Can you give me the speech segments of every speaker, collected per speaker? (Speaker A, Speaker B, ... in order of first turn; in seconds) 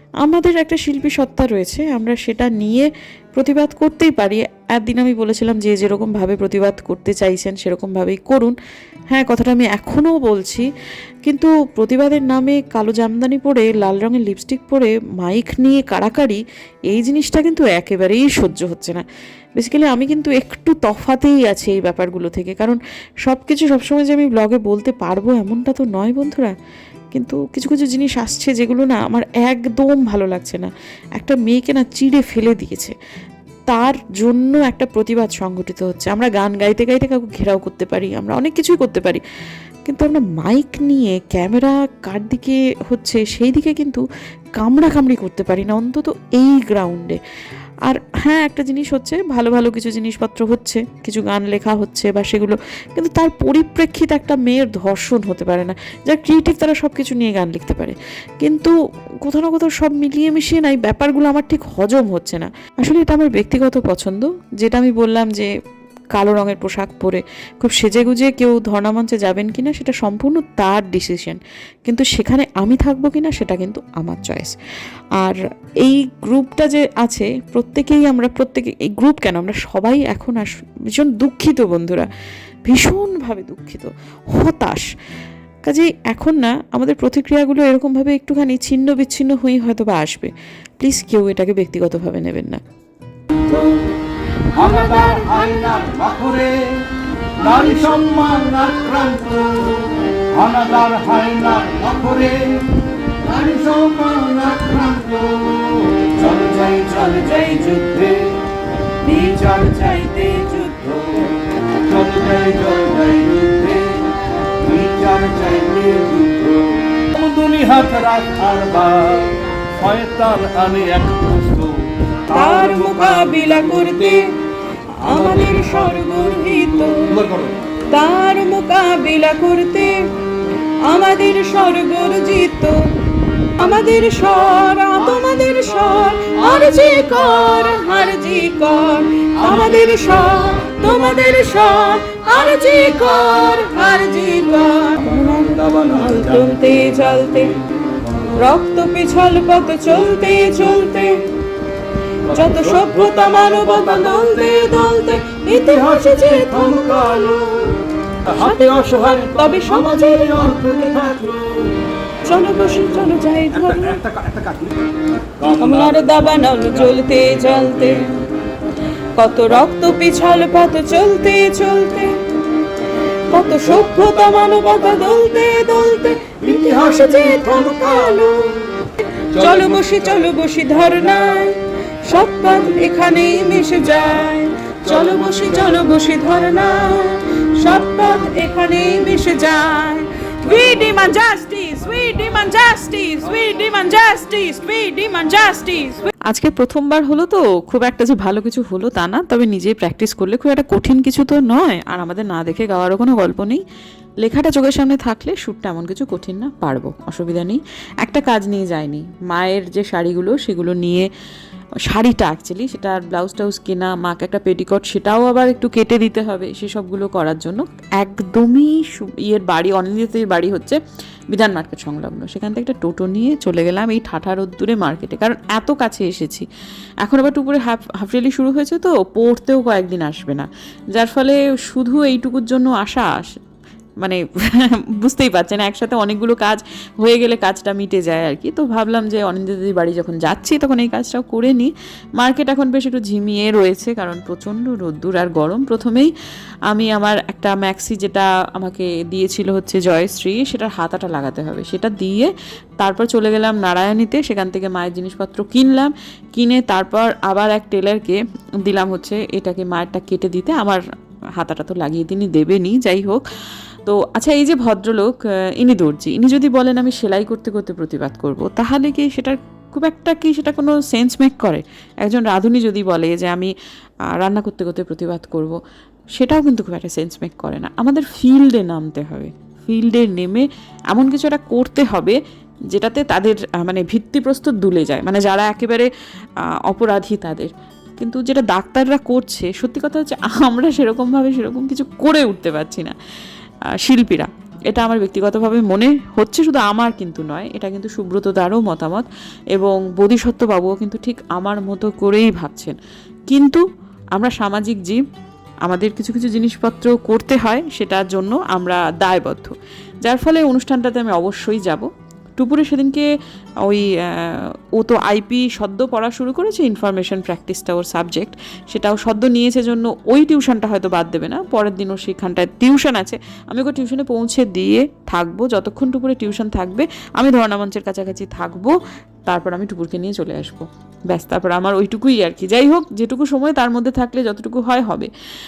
Speaker A: 0.2-8.6, 9.1-10.7, 11.3-19.0, 19.6-26.5, 27.1-33.0, 33.7-39.2, 39.9-44.0, 44.6-47.2, 47.9-65.5, 66.2-74.5, 75.2-82.1, 82.7-84.9, 85.7-92.6, 196.3-203.6, 204.2-211.1, 211.8-220.8, 221.3-226.5, 227.0-233.3, 234.0-246.1, 246.7-260.8, 261.4-263.2, 263.9-273.5, 274.1-275.6, 276.2-282.2, 282.7-285.9, 286.6-293.0, 293.8-302.8, 303.3-303.6, 304.2-305.0, 305.7-313.1, 313.6-328.7, 329.3-335.1
Speaker B: 93.3-93.8, 94.5-96.8, 97.4-102.7, 103.2-108.3, 109.2-110.1, 110.7-124.1, 125.1-127.5, 139.4-140.1, 140.8-141.3, 142.8-143.6, 145.0-147.0, 152.3-157.4, 158.3-164.8, 165.4-168.0, 173.6-174.7, 176.4-178.2, 179.3-180.2, 185.1-185.4
Speaker C: 107.0-107.7, 109.0-110.8, 122.3-124.3, 125.0-127.2, 127.9-130.0, 130.8-132.8, 133.6-147.5, 148.4-151.2, 152.3-161.2, 162.2-164.0, 165.6-168.1, 169.2-172.1, 173.3-196.1